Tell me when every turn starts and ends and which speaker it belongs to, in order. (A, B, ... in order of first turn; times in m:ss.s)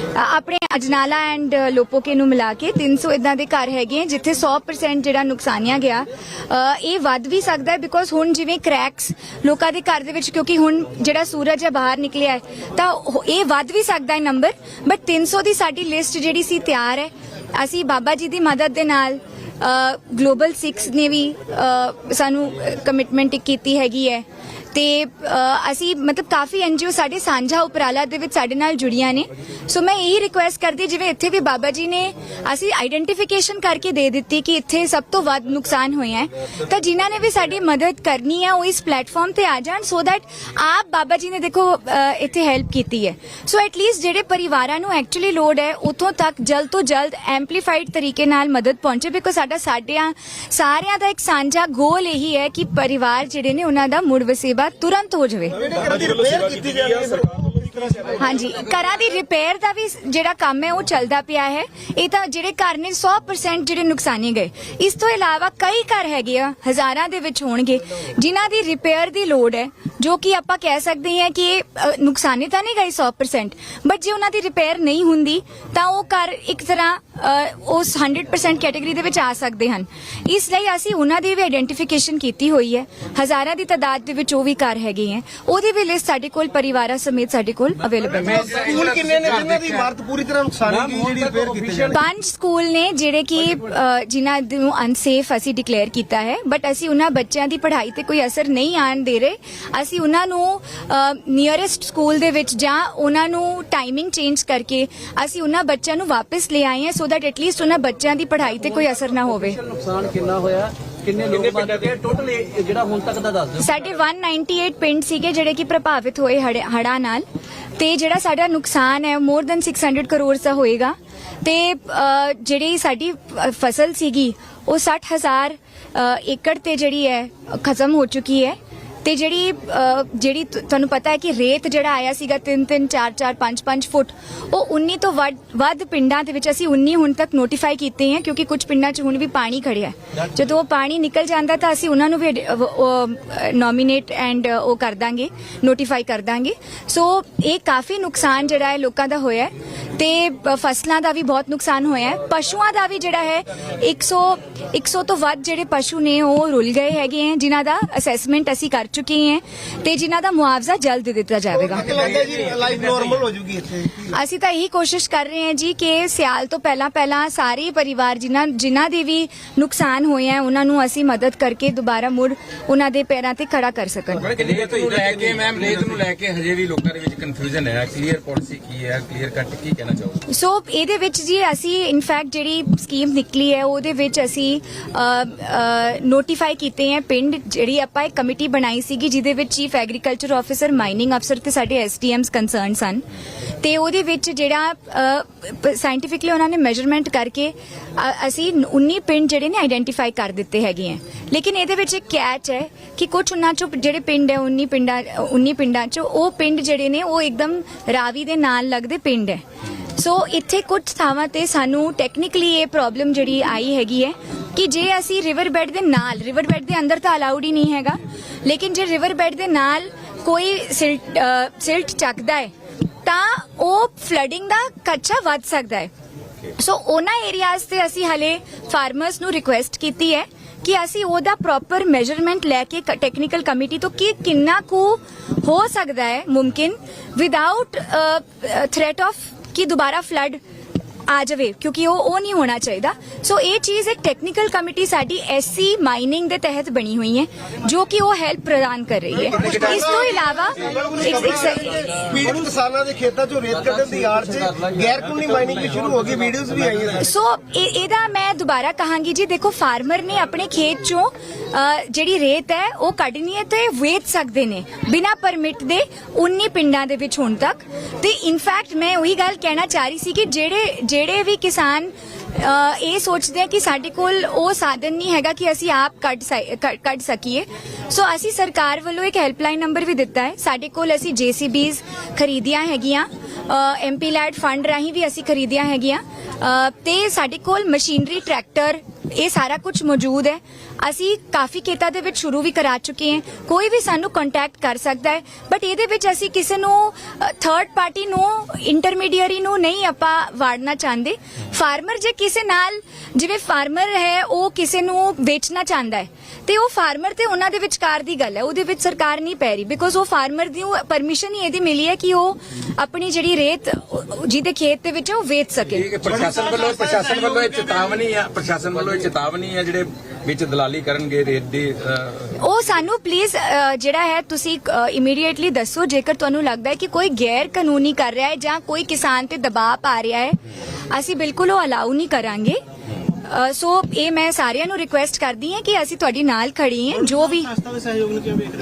0:00.1-0:55.6 A
0:55.6-0:58.1 B
0:58.2-1:28.5 A
1:28.2-1:29.9 C
1:28.4-1:32.0 B
1:31.9-1:49.6 A
1:49.6-1:53.6 D
1:53.6-1:57.2 A
1:57.8-2:42.0 A
2:41.5-2:44.0 B
2:44.0-2:54.3 A
2:54.2-3:00.2 C
3:00.3-3:13.0 A
3:13.6-3:29.4 A
3:29.9-3:42.5 A
3:43.0-3:45.9 A
3:46.6-4:00.4 A
4:01.1-4:11.9 A
4:09.3-4:17.0 B
4:17.0-5:16.0 A
5:15.7-5:22.3 C
5:22.4-5:30.4 A
5:30.9-5:32.6 A
5:33.2-5:37.6 A